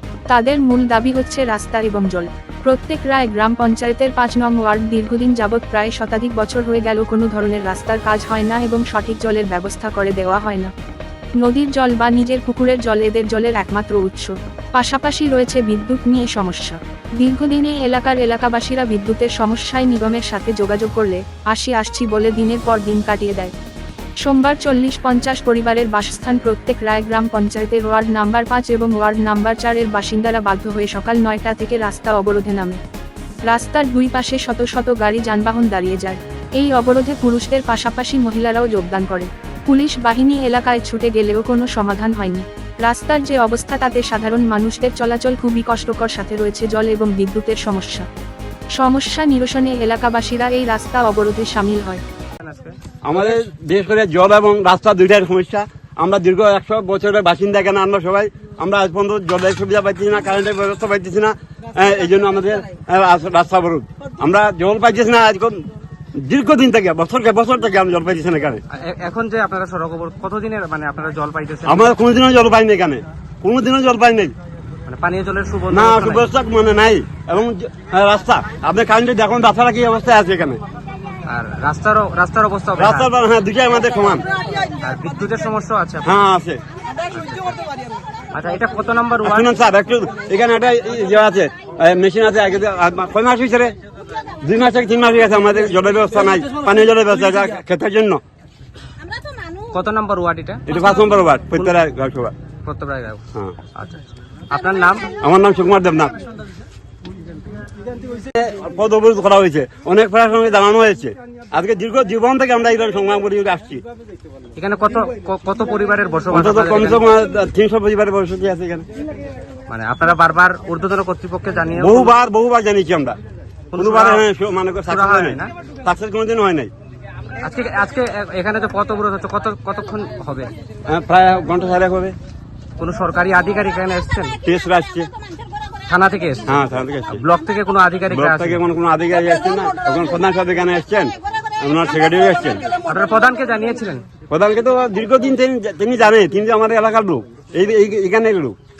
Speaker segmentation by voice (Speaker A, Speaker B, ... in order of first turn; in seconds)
Speaker A: 0.3-10.7, 11.4-23.5, 24.2-32.8, 33.4-48.0, 48.7-52.0
Speaker B: 52.4-52.8, 68.7-71.9, 74.8-76.3, 81.2-83.1, 84.8-86.1, 87.1-87.6, 88.3-89.5, 99.7-100.8, 102.6-103.2, 103.7-105.1, 114.5-117.1, 119.7-122.1, 123.7-124.3, 124.9-125.5, 127.4-130.5, 132.8-134.4, 135.9-136.6, 137.1-138.6, 142.9-144.0
Speaker C: 53.0-65.6, 66.2-68.6, 71.7-74.3, 75.7-80.6, 82.8-84.2, 86.0-86.6, 89.2-93.7, 94.4-98.2, 100.7-102.3, 105.2-106.2, 108.2-113.8, 116.3-118.8, 121.8-123.2, 123.8-126.7, 130.9-132.1, 134.4-135.1, 136.5-137.2, 138.1-142.6, 144.3-148.6